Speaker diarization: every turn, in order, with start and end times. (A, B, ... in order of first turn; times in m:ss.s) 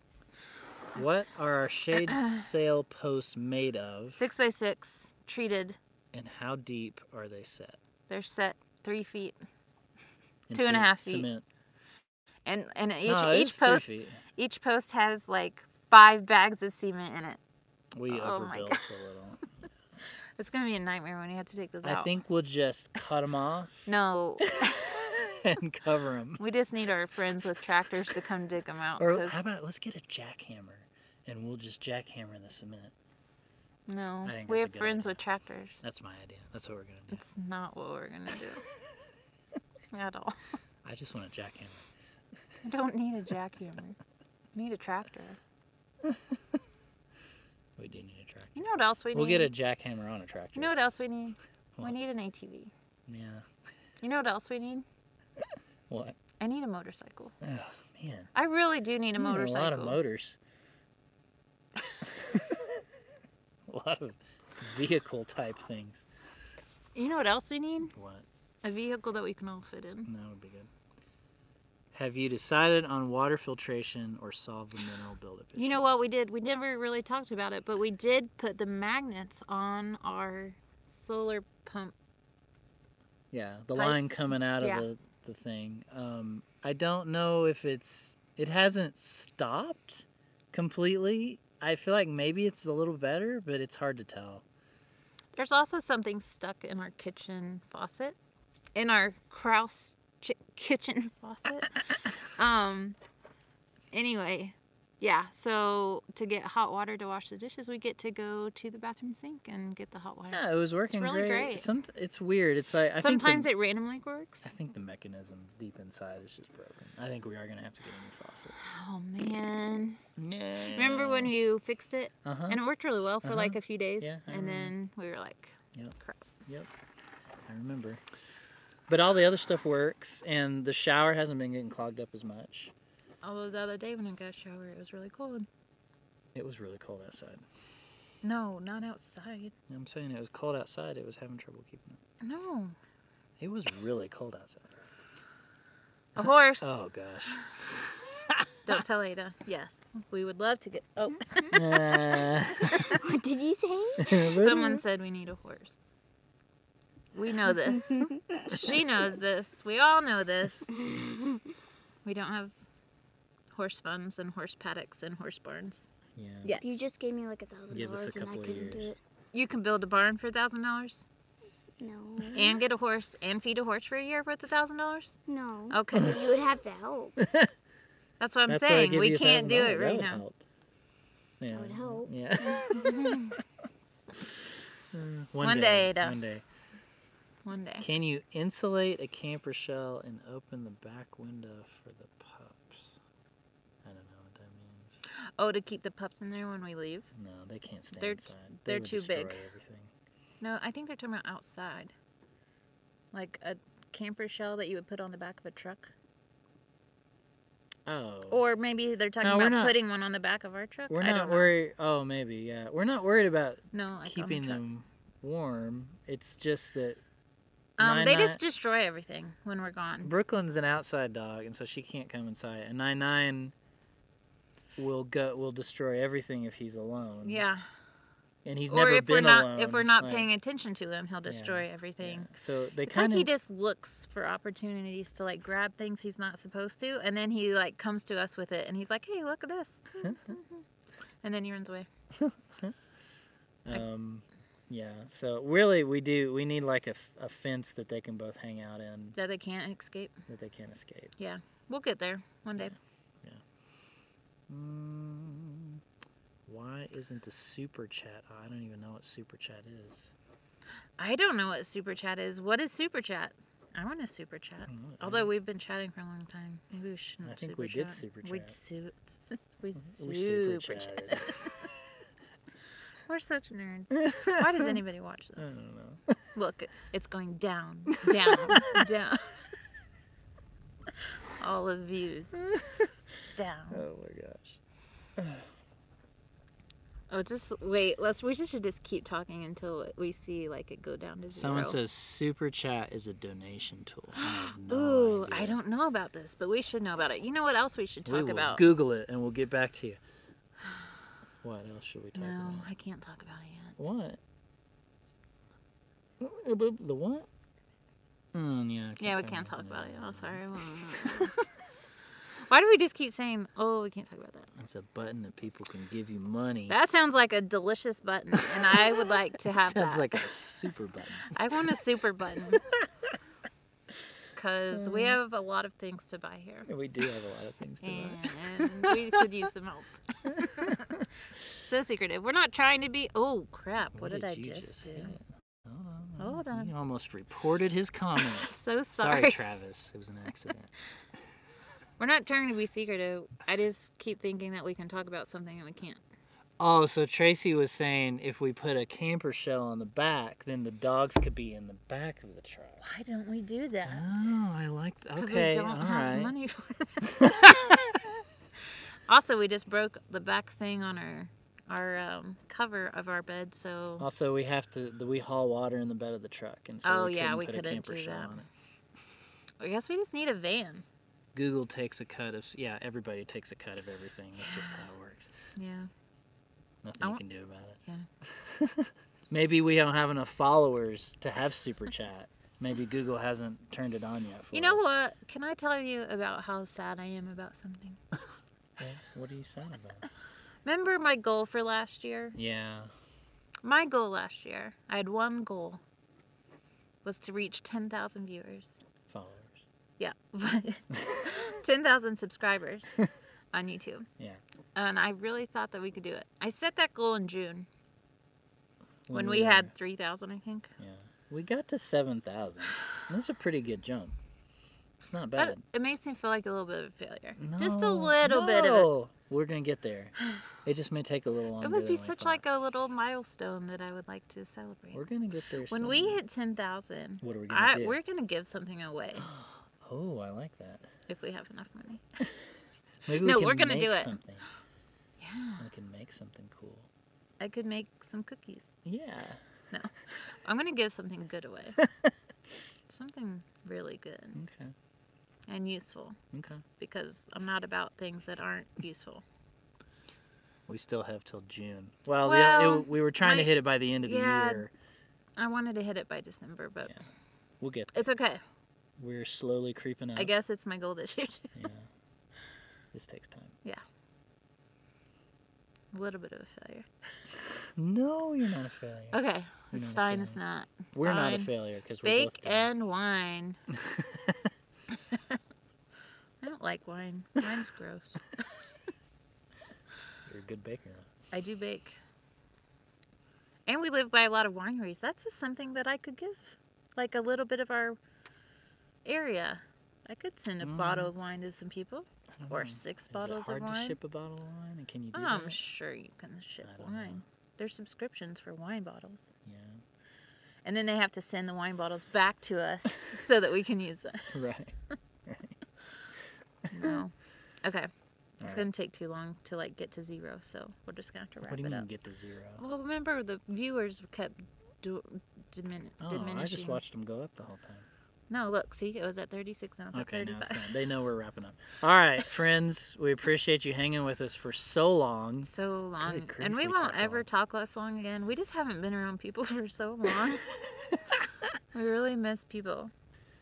0:00.9-0:04.2 A
0:01.9-0:02.5 B
0:04.2-0:05.8 B
0:06.1-0:07.8 A
0:08.1-0:09.4 B
0:10.5-0:11.4 A
0:10.5-0:11.3 B
0:12.4-0:17.4 B
0:13.1-0:14.2 A
0:18.0-0:19.5 A
0:18.1-0:18.9 B
0:20.4-0:22.1 B
0:21.8-0:23.9 A
0:23.9-0:24.9 B
0:24.4-0:26.4 A
0:26.4-0:29.4 B
0:29.0-0:32.9 A
0:33.9-0:35.8 B
0:34.2-0:35.2 A
0:35.8-0:37.2 A
0:37.1-0:38.6 B
0:39.9-0:40.4 B
0:40.8-0:41.9 A
0:42.6-0:44.0 B
0:44.5-0:45.4 B
0:46.0-0:46.4 A
0:47.8-0:50.7 A
0:48.6-0:49.5 B
0:50.6-0:52.7 B
0:53.1-0:53.5 A
0:54.0-0:54.9 B
0:55.9-0:56.2 A
0:56.4-0:57.3 B
0:57.4-0:58.3 A
0:58.3-1:00.0 B
0:59.2-1:00.4 A
1:02.0-1:02.8 A
1:03.7-1:06.1 A
1:06.9-1:07.9 B
1:07.9-1:08.3 A
1:08.6-1:10.1 B
1:10.0-1:10.7 A
1:11.9-1:15.8 A
1:15.6-1:22.0 B
1:23.3-1:34.4 A
1:23.8-1:24.9 B
1:35.3-1:38.2 B
1:38.8-1:43.0 B
1:43.9-1:51.7 B
1:50.3-1:53.5 A
1:53.0-1:54.4 B
1:54.4-1:58.6 A
1:58.6-2:00.0 B
2:00.2-2:01.3 A
2:00.6-2:06.3 B
2:02.2-2:02.6 A
2:03.2-2:04.7 A
2:05.7-2:06.7 A
2:07.5-2:08.0 A
2:08.9-2:12.7 A
2:13.2-2:15.5 B
2:16.4-2:17.4 A
2:18.2-2:19.5 B
2:19.7-2:22.0 A
2:22.2-2:22.8 B
2:23.4-2:24.8 A
2:26.2-2:26.8 B
2:26.2-2:28.6 A
2:28.6-2:31.7 B
2:31.5-2:32.9 A
2:32.7-2:34.4 C
2:34.0-2:34.8 A
2:34.3-2:35.8 B
2:37.1-2:40.8 B
2:37.8-2:38.8 C
2:40.8-2:41.4 C
2:42.0-2:42.6 B
2:43.5-2:45.9 B
2:46.2-2:46.6 A
2:46.4-2:46.8 B
2:46.6-2:49.0 C
2:47.7-2:48.9 A
2:49.3-2:51.1 B
2:51.8-2:52.6 C
2:52.4-2:55.2 B
2:55.3-2:57.2 C
2:55.7-2:56.2 B
2:57.2-2:57.5 A
2:58.2-3:00.2 B
2:58.5-3:00.4 A
3:01.4-3:03.4 A
3:01.5-3:02.9 C
3:02.7-3:03.4 B
3:04.9-3:06.4 A
3:05.4-3:06.2 B
3:07.4-3:07.9 B
3:07.8-3:13.0 A
3:13.8-3:15.0 A
3:15.1-3:17.1 B
3:17.1-3:19.9 A
3:17.9-3:19.5 B
3:20.4-3:21.9 B
3:23.1-3:25.9 B
3:27.9-3:28.4 A
3:28.3-3:31.5 B
3:29.2-3:29.8 A
3:30.9-3:37.0 A
3:33.7-3:34.6 B
3:37.8-3:40.1 B
3:37.8-3:38.4 A
3:40.0-3:43.5 A
3:44.8-3:47.4 A
3:47.2-3:47.7 B
3:48.4-3:50.3 A
3:48.7-3:52.3 B
3:51.3-3:53.3 A
3:52.8-4:00.7 B
4:00.0-4:00.4 A
4:01.2-4:01.9 B
4:02.2-4:02.8 A
4:03.6-4:09.2 A
4:09.2-4:10.2 B
4:10.3-4:11.2 A
4:11.2-4:12.7 B
4:12.6-4:13.4 A
4:14.5-4:15.8 A
4:16.5-4:20.1 A
4:21.0-4:31.6 B
4:24.7-4:25.3 A
4:27.2-4:28.6 A
4:29.8-4:31.6 A
4:33.1-4:35.6 B
4:34.0-4:34.5 A
4:35.4-4:36.2 A
4:36.3-4:39.4 B
4:37.9-4:38.8 A
4:40.9-4:42.4 B
4:42.5-4:42.9 A
4:43.3-4:43.8 B
4:43.7-4:44.6 A
4:45.2-4:45.5 A
4:47.1-4:51.8 B
4:51.3-4:55.6 A
4:54.2-4:58.6 B
4:58.0-5:00.0 A
5:01.4-5:02.7 A
5:02.2-5:03.8 B
5:03.8-5:04.2 A
5:06.2-5:07.3 A
5:08.3-5:11.3 A
5:09.0-5:11.5 B
5:12.3-5:14.5 B
5:14.6-5:16.8 A
5:16.7-5:20.3 B
5:18.7-5:21.8 A
5:21.3-5:22.6 B
5:22.5-5:23.2 A
5:24.4-5:26.7 B
5:24.7-5:25.2 A
5:26.7-5:29.3 A
5:27.8-5:30.9 B
5:30.3-5:31.1 A
5:31.5-5:35.2 B
5:33.9-5:40.7 A
5:36.2-5:36.7 B
5:38.2-5:39.4 B
5:42.0-5:46.0 B
5:46.6-5:52.9 A
5:52.8-5:54.4 B
5:53.8-5:56.3 A
5:55.2-5:57.8 B
5:57.1-5:58.0 A
5:58.7-6:04.1 B
6:04.0-6:08.5 A
6:06.8-6:08.4 B
6:09.6-6:10.8 B
6:11.4-6:15.3 A
6:14.4-6:14.9 B
6:15.6-6:15.9 B
6:16.8-6:24.9 A
6:24.5-6:28.0 B
6:28.8-6:30.1 A
6:30.6-6:32.4 B
6:32.4-6:32.9 A
6:33.6-6:35.8 B
6:37.0-6:38.8 B
6:39.1-6:39.6 A
6:40.0-6:42.9 B
6:40.9-6:41.3 A
6:43.5-6:44.1 B
6:44.8-6:47.7 B
6:49.1-6:49.7 A
6:49.1-6:50.7 B
6:50.8-6:54.2 A
6:55.0-6:55.6 A
6:55.4-6:58.9 B
6:57.4-7:02.4 A
7:01.6-7:05.0 B
7:04.9-7:06.2 A
7:05.7-7:09.3 B
7:07.2-7:08.0 A
7:09.2-7:10.9 A
7:11.1-7:12.1 B
7:13.0-7:14.5 A
7:13.2-7:14.2 B
7:15.2-7:15.6 B
7:15.6-7:16.9 A
7:17.4-7:18.8 B
7:18.8-7:19.4 A
7:19.7-7:21.8 B
7:21.8-7:22.1 A
7:22.9-7:24.4 B
7:24.4-7:24.8 A
7:25.5-7:26.2 B
7:26.3-7:26.6 A
7:26.8-7:29.2 B
7:30.7-7:34.7 A
7:32.2-7:33.5 B
7:34.0-7:34.7 B
7:35.4-7:37.0 B
7:37.6-7:38.0 A
7:37.9-7:38.4 B
7:39.0-7:40.3 A
7:40.2-7:41.6 B
7:41.6-7:41.9 A
7:42.9-7:43.6 A
7:45.9-7:47.2 B
7:47.8-7:49.2 A
7:49.1-7:51.5 B
7:49.7-7:50.4 A
7:50.9-7:52.7 A
7:52.0-7:53.6 B
7:53.7-7:54.4 A
7:54.9-7:55.4 B
7:56.4-7:58.3 B
8:00.2-8:01.1 A
8:01.3-8:02.0 B
8:03.7-8:08.0 B
8:09.0-8:14.0 B
8:10.6-8:11.1 A
8:12.3-8:15.6 A
8:15.1-8:19.3 B
8:16.6-8:17.2 A
8:19.4-8:19.8 A
8:20.6-8:24.3 B
8:24.3-8:25.6 A
8:26.7-8:27.0 A
8:26.7-8:31.9 B
8:28.4-8:28.7 A
8:31.4-8:32.6 A
8:32.6-8:36.8 B
8:36.0-8:37.9 A
8:38.3-8:40.8 B
8:39.9-8:45.5 A
8:45.4-8:50.5 B
8:46.0-8:47.2 A
8:51.7-8:52.9 B